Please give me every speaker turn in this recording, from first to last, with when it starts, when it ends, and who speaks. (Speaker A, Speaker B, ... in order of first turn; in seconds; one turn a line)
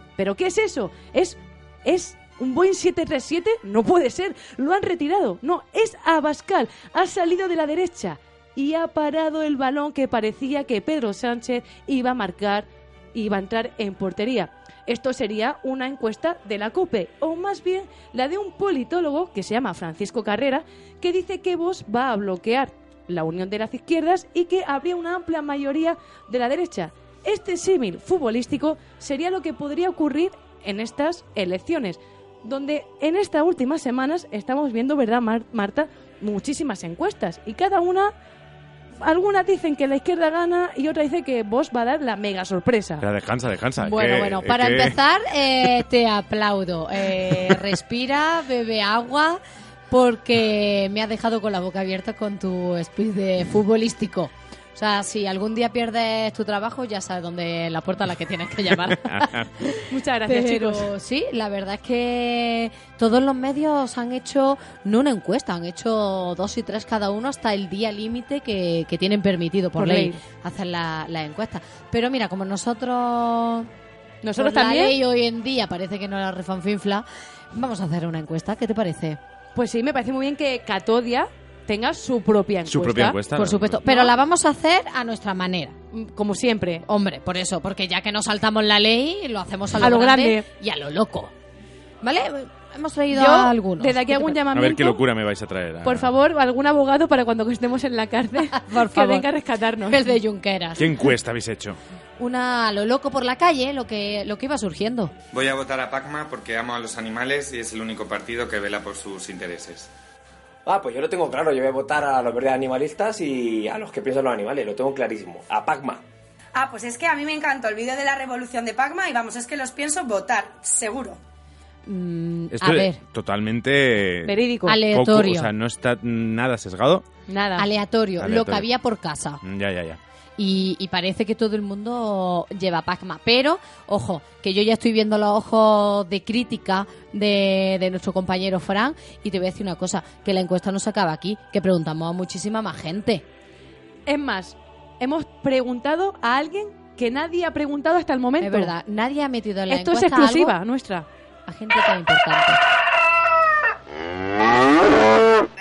Speaker A: 0.2-38.1
Speaker A: 39.0-43.0
Speaker B: 43.0-45.0
Speaker C: 43.8-73.7
Speaker B: 58.9-59.5
Speaker A: 59.9-60.9
Speaker A: 69.8-70.2
Speaker A: 74.2-75.0
Speaker C: 74.3-79.2
Speaker A: 79.5-83.2
Speaker B: 82.7-83.8
Speaker C: 83.3-85.8
Speaker A: 83.8-84.1
Speaker A: 85.9-86.8
Speaker C: 86.8-91.3
Speaker A: 89.8-90.4
Speaker C: 92.0-94.4
Speaker A: 93.1-95.0
Speaker B: 94.5-96.1
Speaker A: 95.8-100.0
Speaker C: 98.5-99.3
Speaker C: 99.8-101.0
Speaker B: 100.8-101.8
Speaker C: 102.2-105.1
Speaker D: 105.3-109.9
Speaker E: 110.7-116.0
Speaker F: 116.6-121.1
Speaker C: 121.8-123.0
Speaker B: 122.5-127.0
Speaker A: 124.2-124.8
Speaker C: 124.7-125.5
Speaker A: 127.3-127.7
Speaker C: 127.5-129.4
Speaker B: 128.2-128.7
Speaker B: 129.4-130.0
Speaker C: 130.4-143.2
Speaker A: 144.1-148.7
Speaker C: 148.4-150.6
Speaker A: 149.7-151.1
Speaker C: 151.5-152.6